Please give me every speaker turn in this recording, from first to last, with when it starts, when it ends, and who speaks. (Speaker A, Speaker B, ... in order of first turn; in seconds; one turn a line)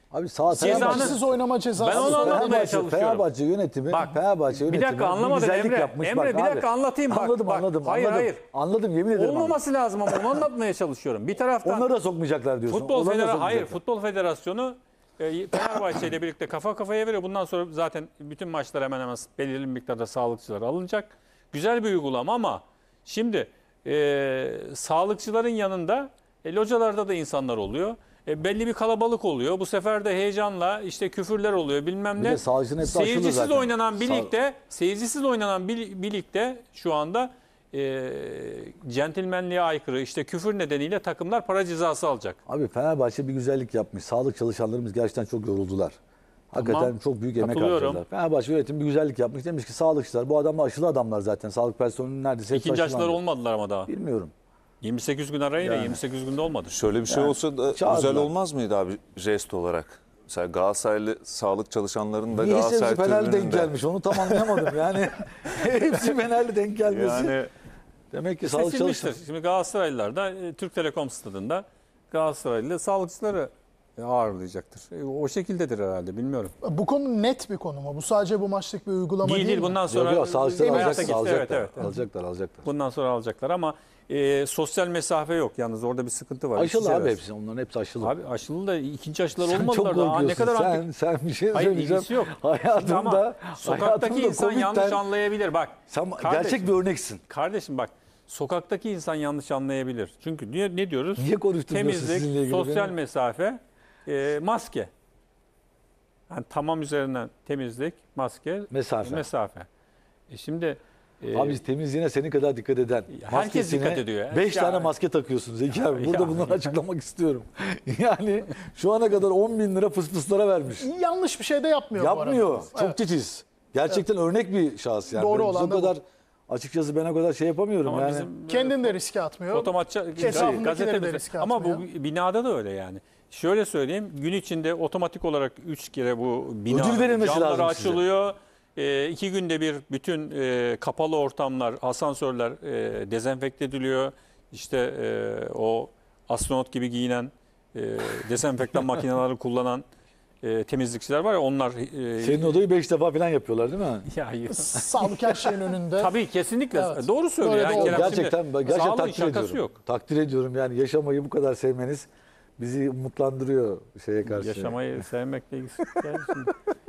Speaker A: 0.1-1.2
Speaker B: 0.5-2.6
Speaker C: 0.5-1.2
Speaker C: 1.8-3.3
Speaker A: 1.9-9.6
Speaker C: 3.9-8.4
Speaker C: 9.1-11.9
Speaker A: 11.6-13.8
Speaker C: 12.7-42.4
Speaker A: 32.2-34.3
Speaker A: 42.5-46.0
Speaker A: 46.5-53.2
Speaker C: 46.6-48.0
Speaker C: 52.5-53.9
Speaker A: 53.9-54.3
Speaker C: 54.8-56.8
Speaker A: 55.6-56.0
Speaker D: 56.7-64.7
Speaker A: 57.1-58.3
Speaker A: 62.3-67.3
Speaker D: 66.8-67.5
Speaker A: 68.1-69.2
Speaker C: 68.5-76.5
Speaker B: 76.6-79.8
Speaker C: 79.2-82.0
Speaker A: 79.9-82.7
Speaker B: 80.6-81.4
Speaker C: 82.6-87.2
Speaker A: 86.5-88.1
Speaker C: 88.0-90.8
Speaker A: 89.4-95.0
Speaker C: 91.5-104.9
Speaker A: 95.9-97.2
Speaker A: 101.2-103.0
Speaker C: 106.3-109.7
Speaker A: 108.7-109.3
Speaker C: 110.3-111.6
Speaker A: 111.3-120.9
Speaker C: 113.1-114.9
Speaker C: 115.8-116.8
Speaker B: 120.8-123.0
Speaker A: 122.0-128.3
Speaker B: 125.1-126.0
Speaker C: 127.9-129.0
Speaker B: 128.5-131.9
Speaker C: 129.5-149.8
Speaker A: 136.7-138.0
Speaker C: 150.4-152.6
Speaker A: 152.2-154.1
Speaker C: 154.1-159.8
Speaker B: 154.5-156.2
Speaker B: 156.7-158.3
Speaker A: 157.7-164.8
Speaker C: 164.3-166.6